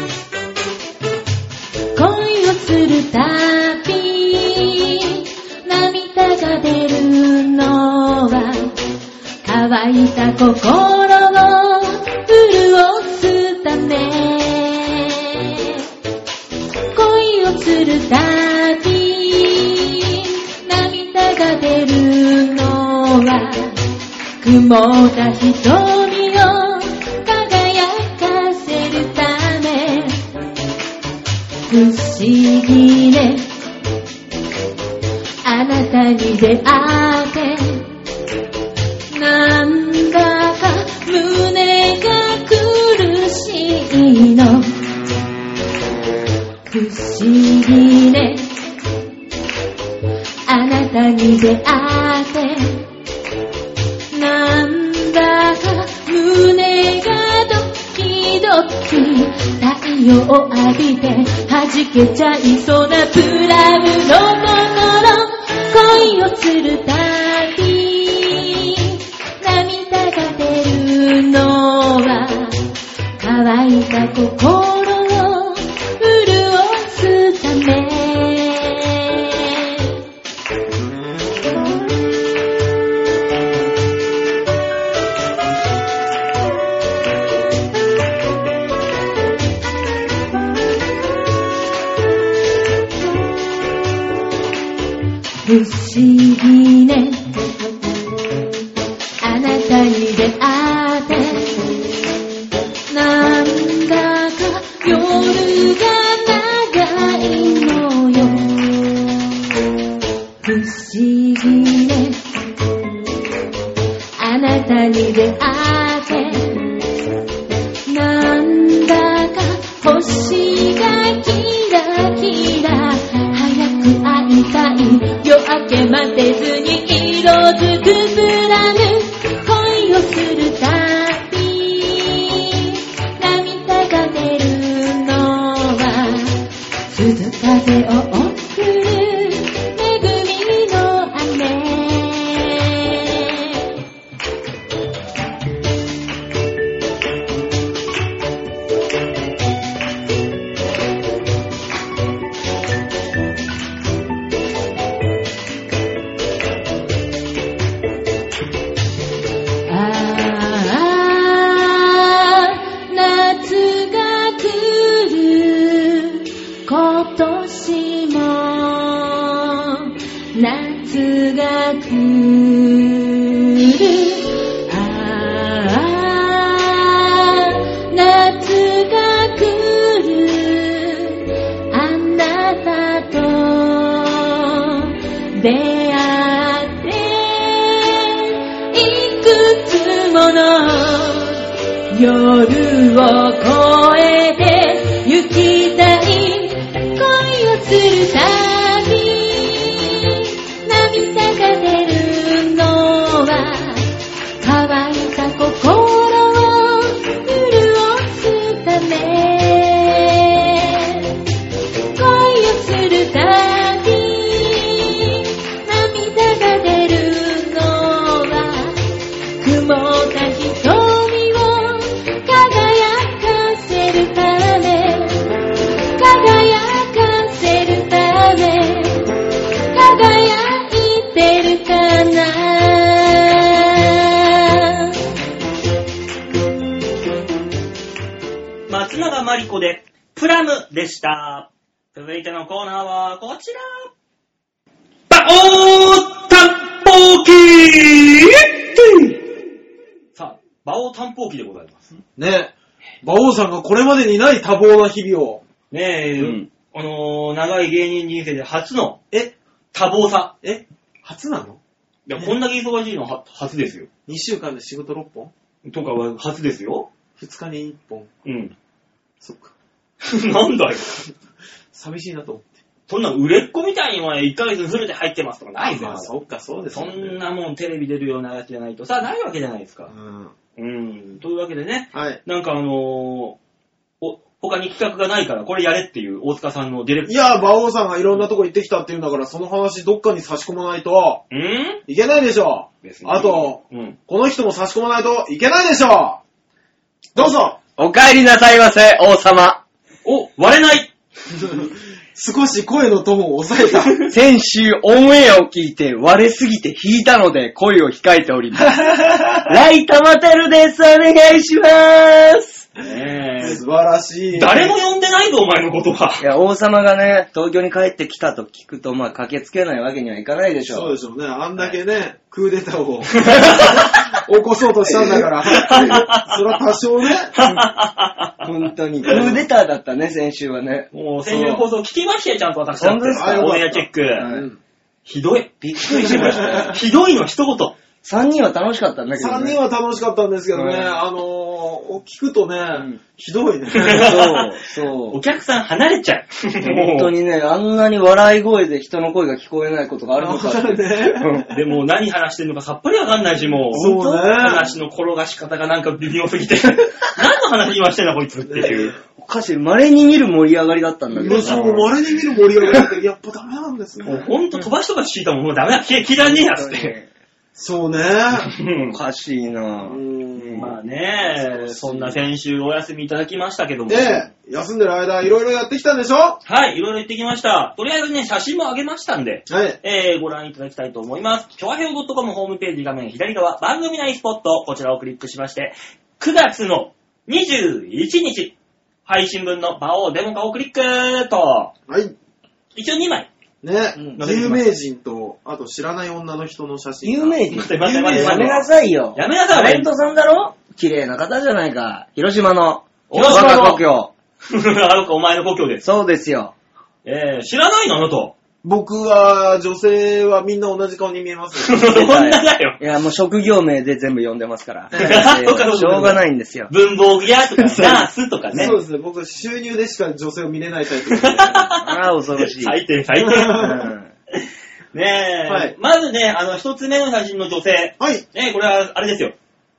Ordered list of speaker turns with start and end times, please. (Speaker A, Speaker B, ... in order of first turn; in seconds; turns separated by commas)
Speaker A: 1.9-8.8, Speaker A: 9.4-15.8, Speaker A: 16.9-23.8, Speaker A: 24.4-30.2, Speaker A: 31.7-33.5, Speaker A: 35.5-37.9, Speaker A: 39.1-44.7, Speaker A: 46.7-48.5, Speaker A: 50.5-52.8, Speaker A: 54.1-72.7, Speaker A: 73.2-80.0, Speaker A: 95.5-98.0, Speaker A: 99.2-101.6, Speaker A: 102.9-108.7, Speaker A: 110.4-112.2, Speaker A: 114.2-116.8, Speaker A: 117.9-136.4, Speaker A: 136.9-143.7, Speaker A: 159.7-203.9, Speaker A: 204.4-211.2, Speaker A: 212.0-218.8, Speaker A: 219.4-225.2, Speaker A: 226.0-229.1, Speaker A: 229.7-234.9, Speaker B: 238.7-243.9, Speaker B: 245.1-249.2, Speaker B: 250.2-251.9, Speaker C: 252.2-255.4, Speaker B: 255.7-259.0, Speaker D: 256.2-256.4, Speaker B: 259.7-260.3, Speaker C: 260.4-261.6, Speaker B: 262.1-263.9, Speaker C: 264.1-265.3, Speaker B: 265.6-266.9, Speaker C: 267.2-268.1, Speaker B: 268.2-268.6, Speaker C: 269.2-269.5, Speaker B: 270.0-270.9, Speaker C: 271.7-272.5, Speaker B: 272.9-276.1, Speaker C: 275.6-277.2, Speaker B: 276.7-279.9, Speaker C: 279.9-280.3, Speaker B: 280.6-283.4, Speaker C: 281.9-282.2, Speaker B: 284.0-287.4, Speaker C: 287.1-291.2, Speaker B: 291.3-291.8, Speaker C: 291.9-296.2, Speaker B: 292.8-294.0, Speaker C: 297.1-297.6, Speaker D: 297.8-299.6, Speaker B: 300.1-300.9, Speaker C: 301.3-304.0, Speaker D: 304.1-308.9, Speaker C: 308.6-309.5, Speaker D: 309.5-312.7, Speaker B: 312.8-313.6, Speaker C: 313.4-314.8, Speaker B: 314.3-316.2, Speaker D: 316.2-320.9, Speaker C: 320.7-327.3, Speaker B: 323.2-324.1, Speaker B: 325.5-326.6, Speaker B: 327.3-328.5, Speaker D: 328.4-331.6, Speaker B: 329.0-329.3, Speaker C: 329.1-329.4, Speaker B: 330.9-334.3, Speaker D: 332.8-334.5, Speaker C: 333.1-334.6, Speaker B: 335.1-337.8, Speaker D: 335.6-336.8, Speaker C: 335.9-336.8, Speaker D: 338.0-339.6, Speaker C: 339.1-344.3, Speaker D: 340.5-340.9, Speaker B: 343.7-344.6, Speaker D: 343.9-345.2, Speaker B: 345.1-347.1, Speaker D: 346.6-351.5, Speaker C: 350.2-351.5, Speaker B: 351.5-359.0, Speaker D: 353.7-354.2, Speaker C: 353.7-354.7, Speaker C: 358.4-359.0, Speaker D: 359.1-361.9, Speaker C: 361.1-364.3, Speaker B: 361.2-361.8, Speaker B: 364.1-366.9, Speaker D: 366.2-367.1, Speaker C: 367.6-368.5, Speaker B: 368.4-369.0, Speaker D: 368.9-370.7, Speaker C: 369.8-370.8, Speaker B: 370.6-374.3, Speaker C: 371.3-372.2, Speaker C: 373.9-376.4, Speaker B: 376.4-388.6, Speaker C: 379.5-379.8, Speaker B: 389.1-391.7, Speaker C: 391.9-392.1, Speaker B: 392.8-393.3, Speaker C: 393.6-398.7, Speaker B: 394.1-394.8, Speaker D: 397.0-404.1, Speaker B: 397.5-399.9, Speaker B: 403.1-403.8, Speaker C: 403.1-403.7, Speaker B: 404.5-405.8, Speaker D: 405.8-406.5, Speaker B: 407.1-408.4, Speaker C: 408.6-411.9, Speaker B: 411.6-412.8, Speaker D: 411.9-416.7, Speaker C: 414.9-415.3, Speaker B: 414.9-418.8, Speaker D: 417.5-418.7, Speaker C: 418.5-421.7, Speaker B: 421.1-423.8, Speaker D: 421.8-422.8, Speaker C: 423.2-423.9, Speaker D: 423.6-424.1, Speaker B: 424.4-429.4, Speaker C: 425.5-425.8, Speaker C: 428.0-428.2